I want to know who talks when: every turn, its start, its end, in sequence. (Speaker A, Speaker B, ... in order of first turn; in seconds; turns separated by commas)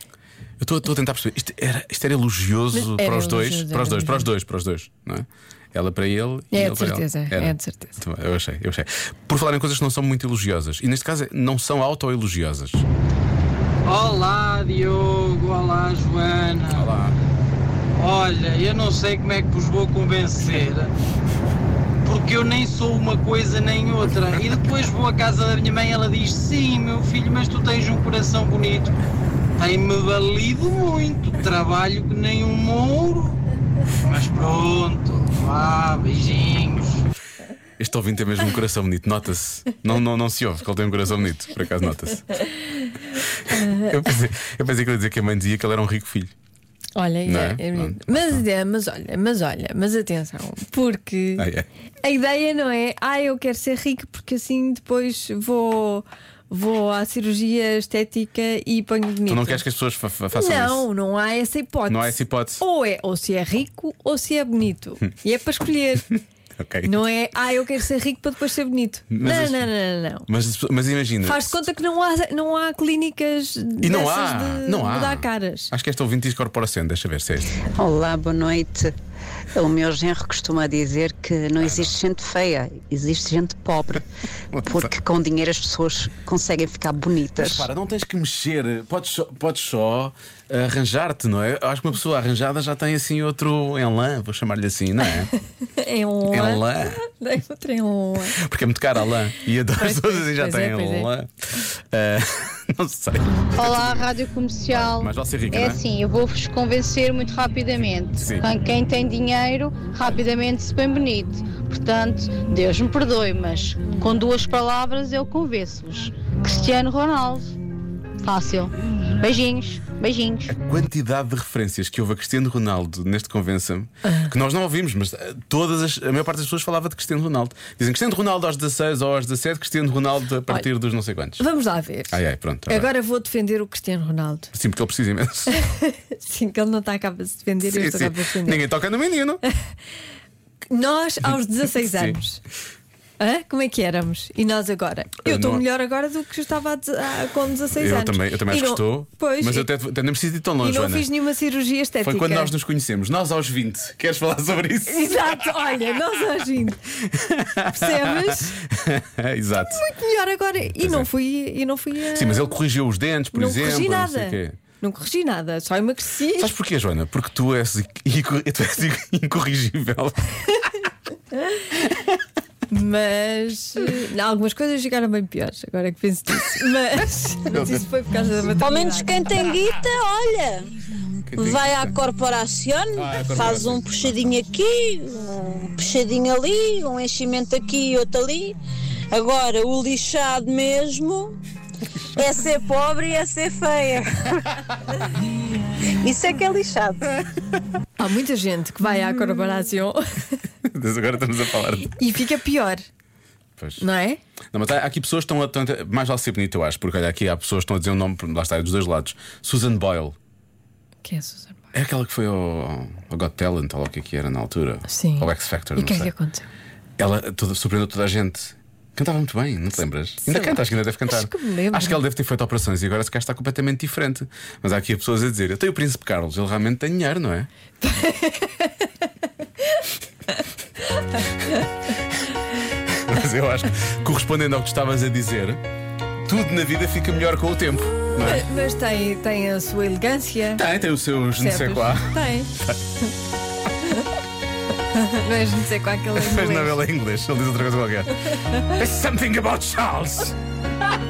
Speaker A: 0.6-12.9, Speaker B: 2.7-4.3, Speaker B: 6.5-8.0, Speaker C: 13.9-16.9, Speaker A: 16.8-17.2, Speaker C: 18.0-20.9, Speaker C: 22.1-28.9, Speaker C: 29.6-33.4, Speaker C: 34.0-37.0, Speaker A: 37.8-42.2, Speaker A: 43.9-46.3, Speaker B: 47.0-51.5, Speaker A: 47.5-48.0, Speaker A: 51.4-51.7, Speaker B: 52.0-59.6, Speaker A: 59.3-60.8, Speaker B: 60.3-66.1, Speaker A: 61.9-62.6, Speaker B: 66.8-70.3, Speaker A: 70.3-71.4, Speaker B: 71.2-75.7, Speaker A: 73.8-75.2, Speaker A: 75.7-77.5, Speaker D: 77.6-78.9, Speaker D: 79.5-84.0, Speaker A: 81.6-81.9, Speaker D: 84.6-87.7, Speaker A: 87.5-95.3, Speaker B: 95.7-98.4, Speaker A: 96.3-97.0, Speaker A: 98.3-101.3, Speaker B: 99.7-101.1, Speaker A: 101.9-103.5, Speaker E: 103.6-117.5, Speaker A: 104.7-105.8, Speaker E: 118.2-120.5, Speaker A: 120.5-131.4, Speaker B: 131.4-134.5, Speaker A: 132.1-132.9, Speaker A: 134.6-135.6, Speaker B: 135.5-138.7, Speaker A: 137.7-139.4, Speaker B: 140.7-142.4, Speaker B: 143.2-149.7, Speaker A: 145.3-145.6, Speaker A: 147.8-151.1, Speaker B: 150.6-152.5, Speaker A: 152.1-155.0, Speaker B: 154.9-156.8, Speaker B: 157.7-158.6, Speaker A: 158.9-159.7, Speaker B: 159.6-162.5, Speaker A: 162.2-164.6, Speaker B: 163.3-166.5, Speaker A: 166.4-170.3, Speaker B: 172.7-179.5, Speaker A: 177.5-177.9, Speaker F: 178.5-180.7, Speaker F: 181.3-188.6, Speaker A: 183.0-183.7, Speaker F: 189.1-191.4, Speaker F: 192.2-194.5, Speaker F: 196.0-197.2, Speaker B: 198.0-200.0, Speaker A: 200.7-201.9, Speaker B: 201.9-202.8, Speaker B: 203.8-204.2, Speaker A: 204.5-210.2, Speaker B: 211.0-211.7, Speaker A: 211.7-216.1, Speaker B: 214.9-216.5, Speaker A: 217.0-227.5, Speaker B: 220.2-222.0, Speaker B: 227.8-228.7, Speaker B: 231.0-231.6, Speaker A: 233.1-235.6, Speaker A: 236.3-238.4, Speaker B: 238.2-240.7, Speaker A: 240.6-242.1, Speaker B: 241.4-242.5, Speaker B: 244.9-246.8, Speaker A: 246.2-248.1, Speaker A: 248.8-250.4